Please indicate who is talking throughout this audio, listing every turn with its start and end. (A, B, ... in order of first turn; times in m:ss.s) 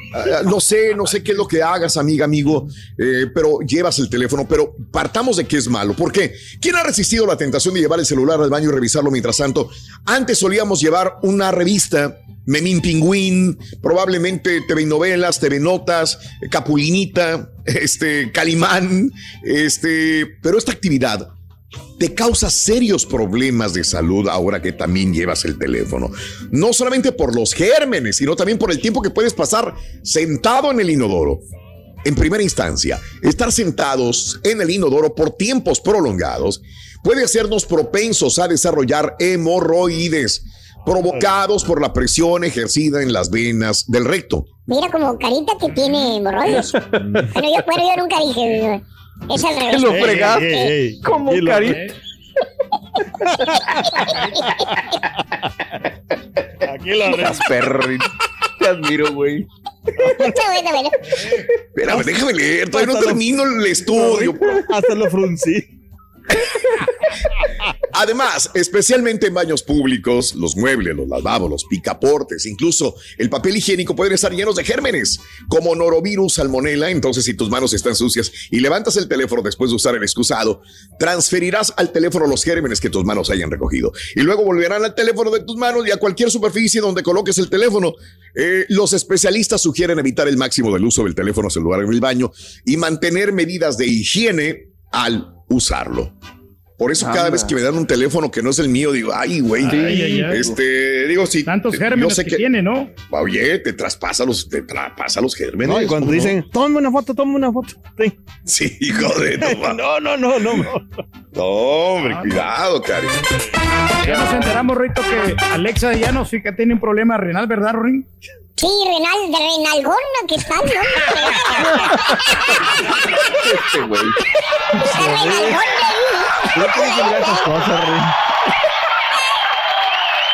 0:00.1-0:21.3 A
0:22.0-0:31.4 A
0:32.0-0:44.5 A
0:44.7-0:50.7 B
0:46.7-0:47.2 C
0:49.7-0:51.9 C
0:49.9-0:51.8 D
0:51.7-0:51.9 E
0:53.4-0:54.7 D
0:53.9-0:54.4 B
0:56.6-0:57.5 D
0:57.0-0:59.5 C
1:00.0-1:00.3 D
1:00.1-1:01.1 B
1:01.8-1:04.6 A
1:02.7-1:03.2 D
1:03.9-1:05.7 D
1:07.9-1:36.1 A
1:36.8-1:42.5 A
1:37.0-1:37.5 C
1:39.6-1:40.4 E
1:39.7-1:40.5 C
1:41.4-1:42.9 E
1:43.1-1:46.4 A
1:45.6-1:48.2 D
1:48.5-1:49.8 A
1:49.3-1:50.8 D
1:51.3-1:53.2 A
1:52.0-1:52.4 E
1:54.0-1:58.1 E
1:58.6-2:03.2 B
2:01.6-2:02.4 C
2:03.4-2:04.2 C
2:04.7-2:07.4 B
2:04.8-2:05.6 C
2:06.6-2:08.0 C
2:06.7-2:08.1 D